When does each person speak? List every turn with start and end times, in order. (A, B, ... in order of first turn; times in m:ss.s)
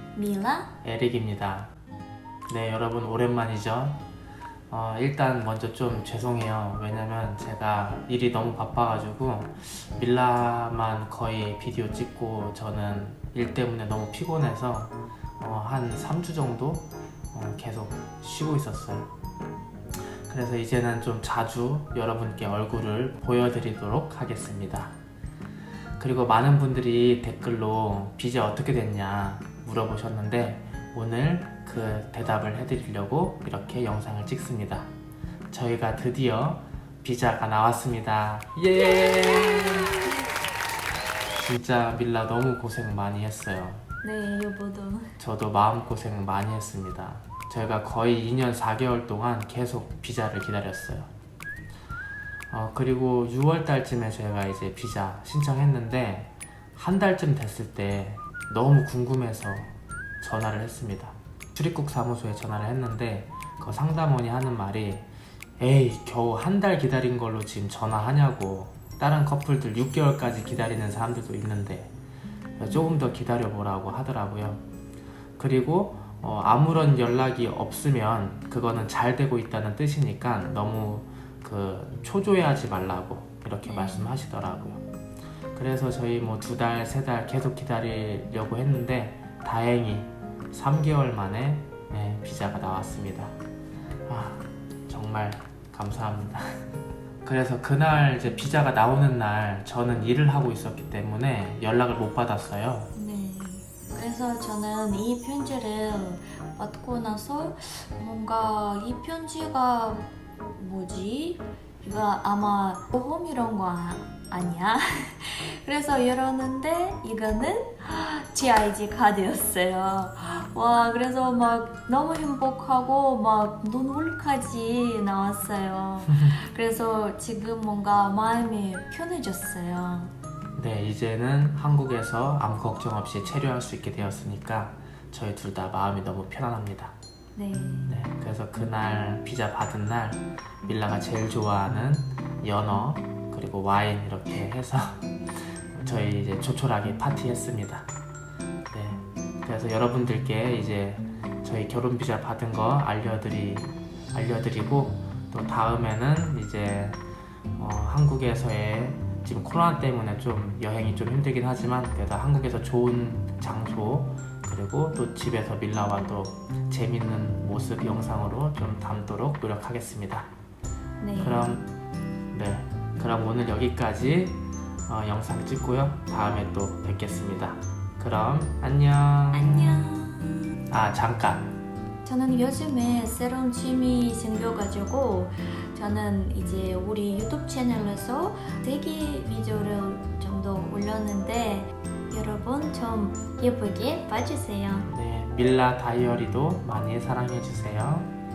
0:00.2-0:00.7 A
0:00.8-0:01.7 B
0:02.5-0:04.0 B
0:04.7-0:19.1 B
0:20.3-0:24.9 B
0:26.0-0:34.9 B
0:35.5-0:40.2 B
0:39.5-0:39.9 A
0:41.4-0:43.8 B
0:44.0-0:45.1 A
0:45.2-0:51.1 B
0:52.5-1:05.1 B
1:05.6-1:11.9 B
1:12.6-1:14.6 B
1:15.4-1:24.8 B
1:23.7-1:24.1 A
1:25.6-1:33.3 B
1:34.1-1:36.6 B
1:37.2-1:42.9 B
1:43.0-2:10.1 A
2:10.6-2:17.0 B
2:17.4-2:17.9 A
2:17.9-2:25.1 B
2:25.7-2:27.9 B
2:28.7-2:37.0 B
2:37.6-2:50.3 B
2:51.0-2:51.5 A
2:51.2-2:51.7 B
2:52.3-2:59.9 B
2:59.3-3:00.6 A
3:00.7-3:01.5 B
3:02.0-3:14.9 A
3:14.9-3:18.1 B